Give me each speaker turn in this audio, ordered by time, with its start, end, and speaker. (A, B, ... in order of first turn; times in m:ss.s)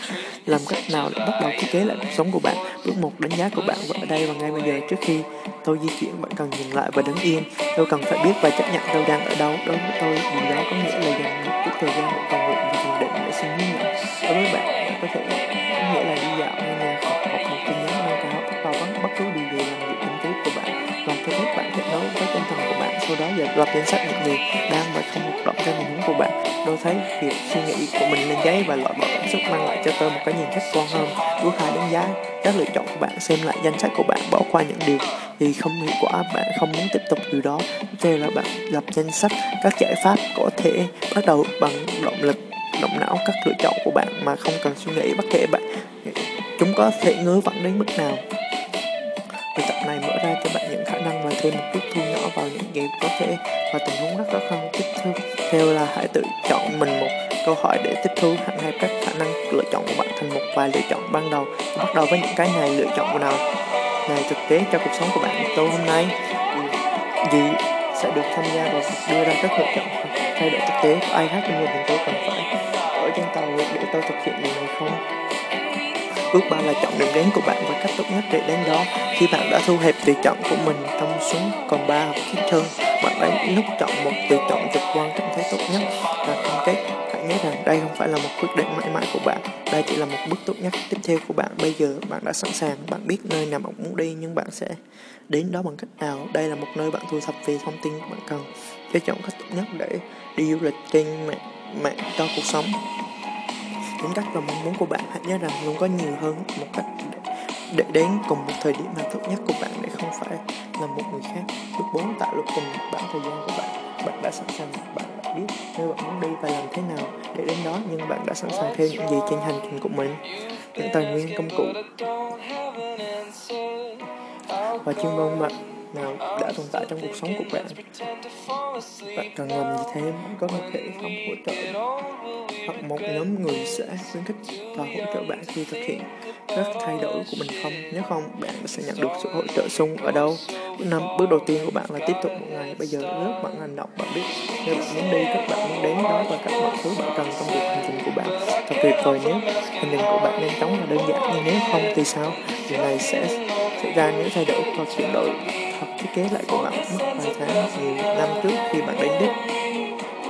0:00.4-0:48.2 A
0:49.5-1:03.4 A
1:04.1-1:15.0 A
1:16.3-1:34.8 A
1:35.3-1:42.8 A
1:44.0-2:01.9 A
2:04.8-2:07.9 A
2:09.0-2:11.8 A
2:12.6-2:39.4 A